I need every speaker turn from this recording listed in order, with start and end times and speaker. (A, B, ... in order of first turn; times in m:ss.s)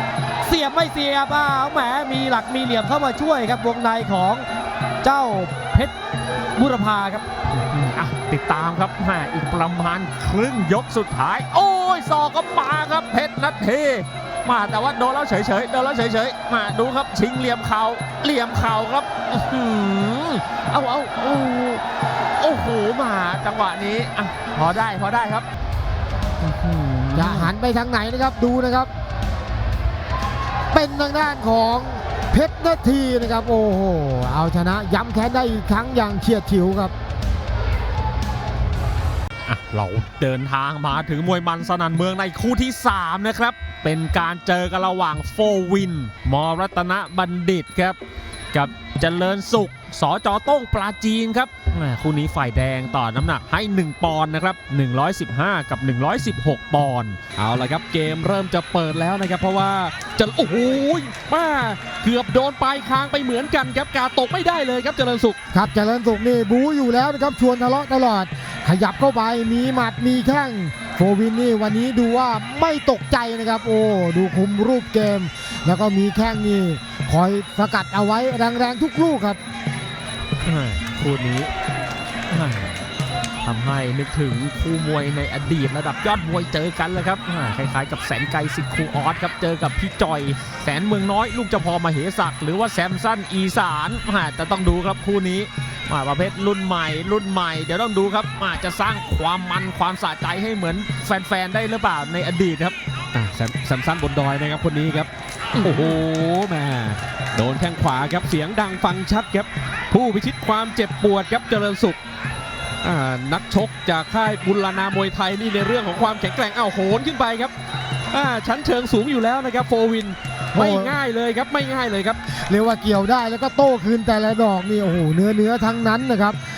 0:00.4-0:04.5 A
0:05.0-0:05.9 A
0:06.6-0:07.2 A
0:07.5-0:21.8 B
0:22.4-0:25.5 B
0:26.4-0:27.5 B
0:27.2-0:28.9 C
0:30.7-0:36.9 C
0:39.5-0:48.0 B
0:48.5-0:57.2 B
0:57.4-1:05.4 D
1:05.5-1:19.4 C
1:20.4-1:21.5 B
1:22.3-1:22.8 B
1:23.4-1:42.8 B
1:43.1-1:45.1 D
1:45.6-1:46.0 B
1:45.6-1:52.0 D
1:52.8-1:57.5 D
1:58.1-2:02.2 D
2:00.6-2:01.0 C
2:02.5-2:06.4 C